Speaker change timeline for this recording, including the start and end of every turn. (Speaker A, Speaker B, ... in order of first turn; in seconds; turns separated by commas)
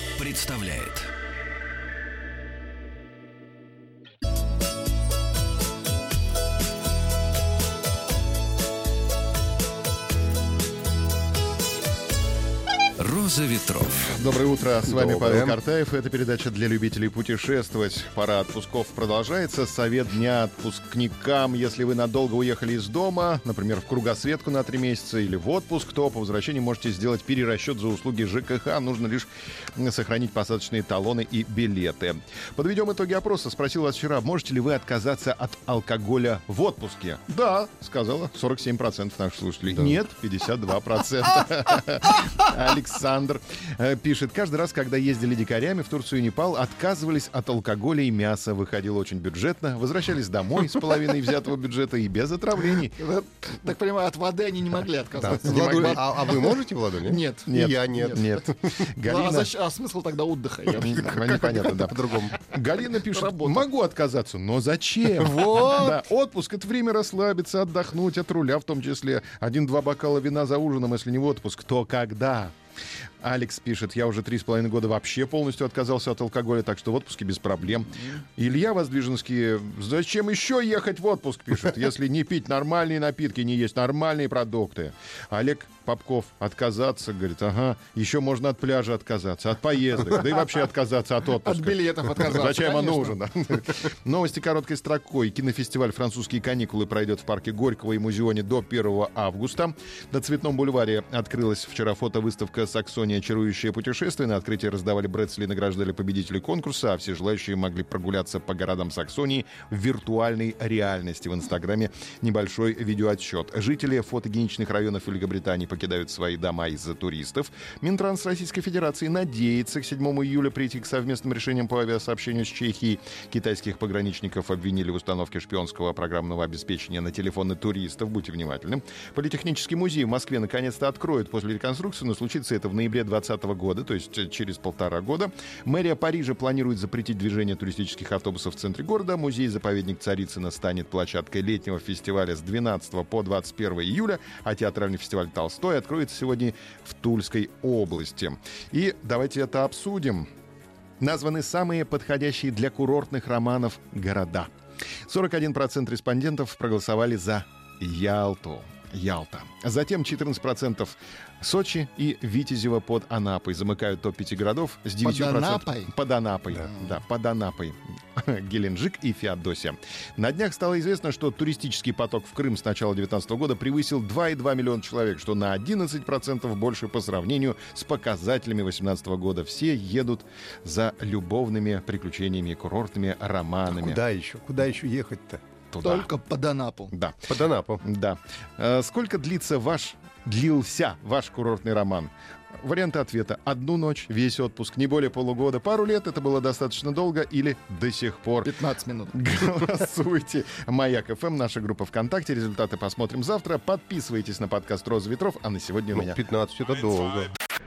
Speaker A: 0.2-1.1, Speaker A: 13.0-14.1, Speaker B: 14.1-53.0, Speaker C: 14.9-15.6, Speaker D: 53.0-58.3, Speaker C: 55.2-58.8, Speaker B: 57.4-59.5, Speaker D: 59.0-61.8, Speaker B: 60.8-72.5, Speaker C: 61.4-62.4, Speaker D: 62.9-63.6, Speaker C: 65.2-66.0, Speaker B: 73.2-150.3, Speaker D: 91.4-93.2, Speaker B: 151.0-154.5, Speaker B: 155.1-184.0, Speaker D: 165.0-165.9, Speaker C: 183.7-185.4, Speaker B: 185.7-186.1, Speaker D: 185.8-186.9, Speaker B: 186.9-187.2, Speaker C: 187.2-187.8, Speaker B: 187.8-198.5, Speaker D: 198.4-199.3, Speaker B: 199.1-206.2, Speaker C: 205.9-207.3